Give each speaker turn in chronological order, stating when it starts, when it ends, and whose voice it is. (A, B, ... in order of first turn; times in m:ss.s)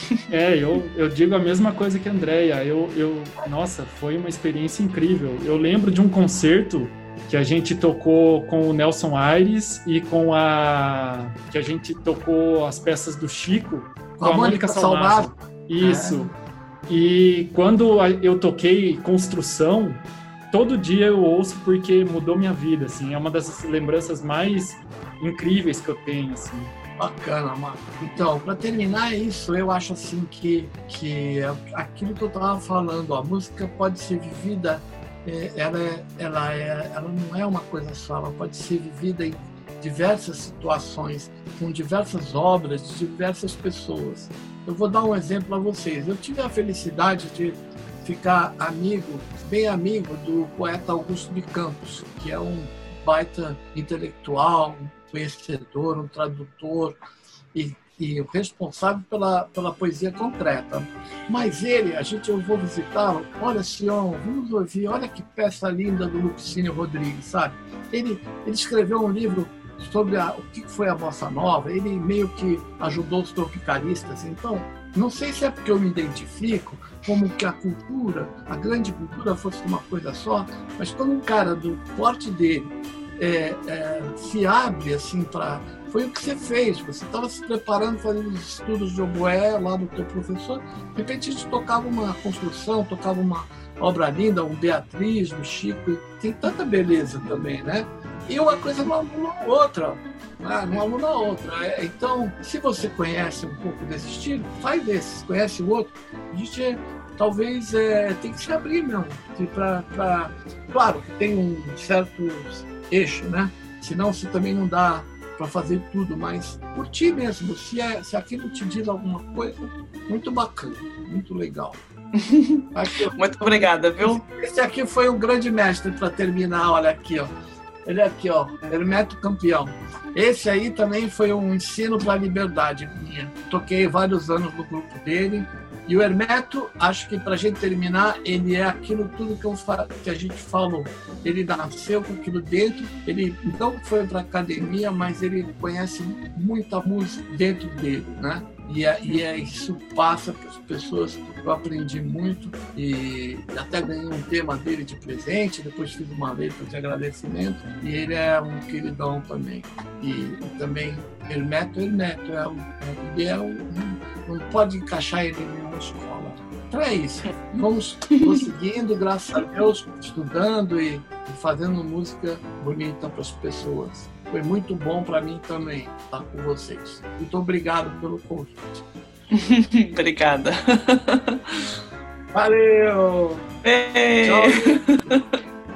0:00.3-0:16.3 A
0:14.2-0:16.3 B
0:16.9-0:26.7 A
0:27.0-0:57.0 B
0:57.5-2:01.8 B
2:02.2-2:04.2 C
2:02.7-2:07.3 B
2:07.9-2:58.8 B
2:59.3-3:01.7 C
3:02.3-3:03.4 B
3:03.6-3:05.4 C
3:04.2-3:05.1 B